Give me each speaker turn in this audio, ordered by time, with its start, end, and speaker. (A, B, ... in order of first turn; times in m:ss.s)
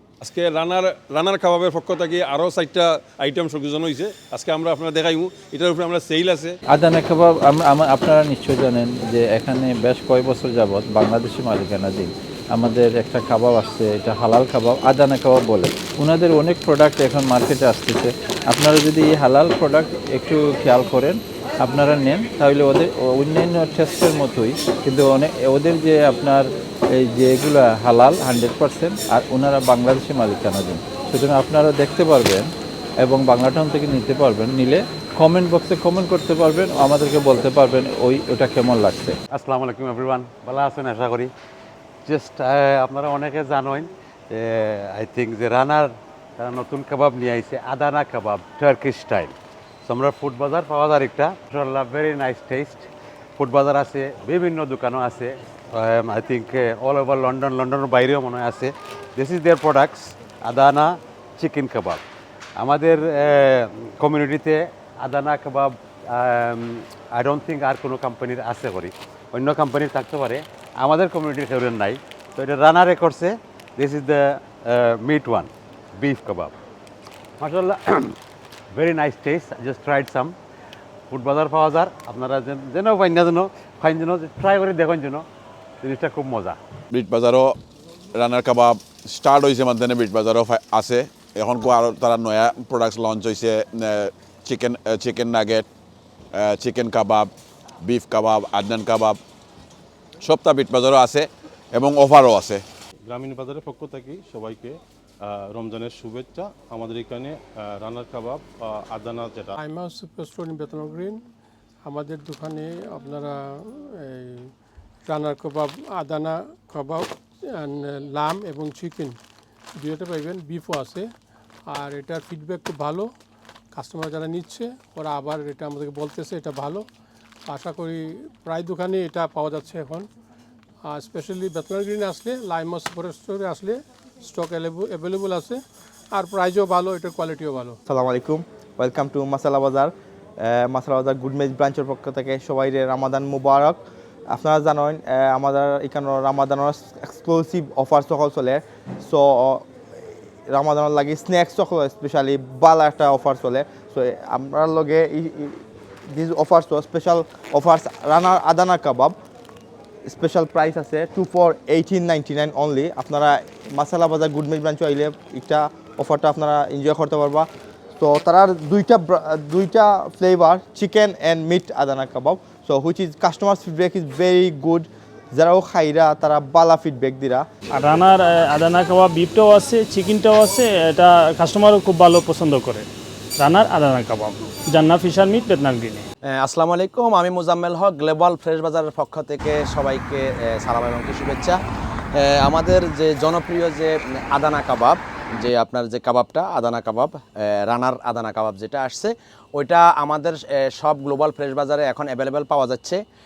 0:00.2-0:06.6 A
0:06.7-0:32.5 B
0:33.0-0:39.2 B
0:39.3-0:41.3 C
0:42.0-0:49.3 C
0:49.8-1:02.0 C
1:02.6-1:16.5 C
1:17.4-1:18.1 C
1:18.7-1:20.3 C
1:21.1-1:25.2 C
1:25.8-1:26.6 C
1:26.9-1:27.6 D
1:28.1-1:35.6 D
1:36.3-1:37.3 D
1:37.8-1:39.2 D
1:40.2-1:42.6 D
1:43.1-1:49.6 E
1:49.6-1:51.2 F
1:51.8-1:54.5 F
1:55.1-1:59.2 F
1:59.8-2:01.1 F
2:01.7-2:03.1 F
2:03.7-2:06.8 F
2:07.5-2:10.1 F
2:10.8-2:15.6 F
2:16.1-2:17.8 F
2:17.9-2:23.8 G
2:24.3-2:29.6 G
2:30.5-2:39.2 G
2:40.1-2:47.5 G
2:48.0-2:57.4 G
2:57.7-3:02.9 H
3:03.4-3:06.0 H
3:06.3-3:11.6 I
3:12.1-3:23.0 I